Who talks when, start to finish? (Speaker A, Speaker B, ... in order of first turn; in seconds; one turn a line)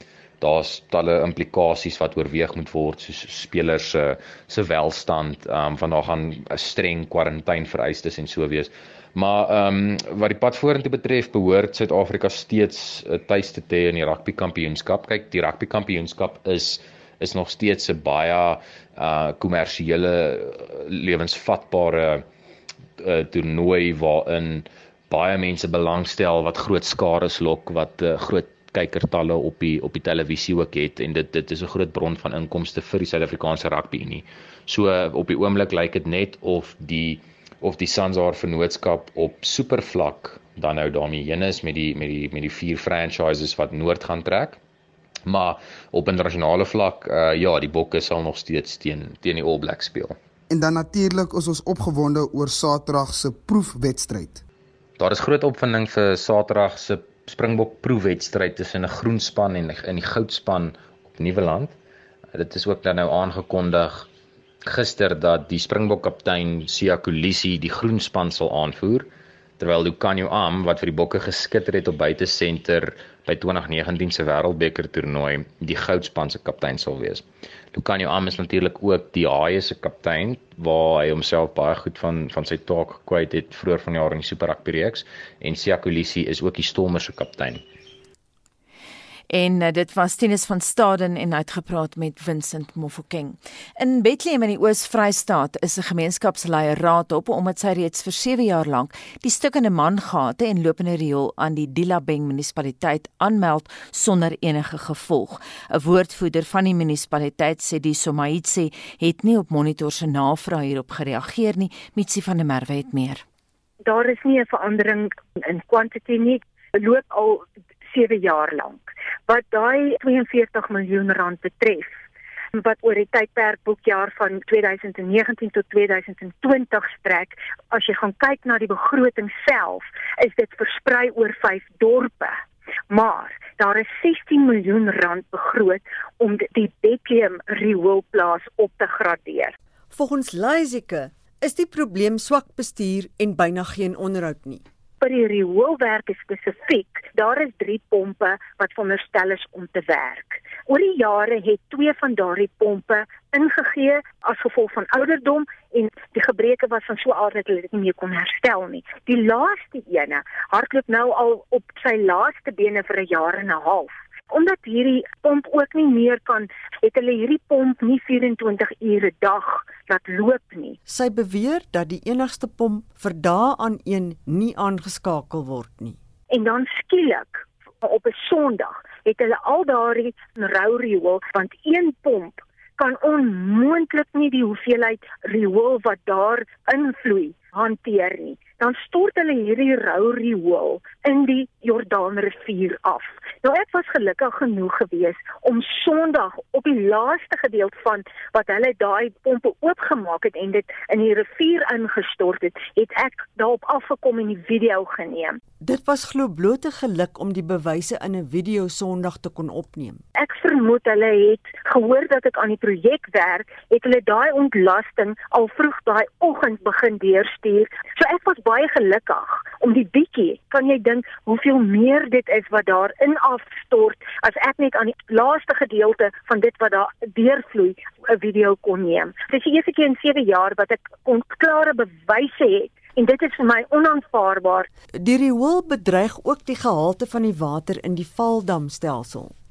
Speaker A: 0.4-22.2
Speaker A: 23.0-44.6
Speaker A: 45.3-50.2
Speaker B: 50.5-54.4
Speaker A: 55.0-61.7
Speaker A: 62.3-64.1
Speaker A: 64.7-69.1
Speaker A: 69.6-87.6
Speaker C: 89.3-113.2
Speaker D: 113.8-121.9
Speaker D: 122.5-132.4
Speaker D: 132.9-139.5
Speaker E: 139.9-144.6
Speaker D: 145.0-170.8
Speaker E: 170.9-176.0
Speaker D: 176.3-205.4
Speaker E: 205.6-210.0
Speaker D: 210.2-234.7
Speaker E: 235.0-239.3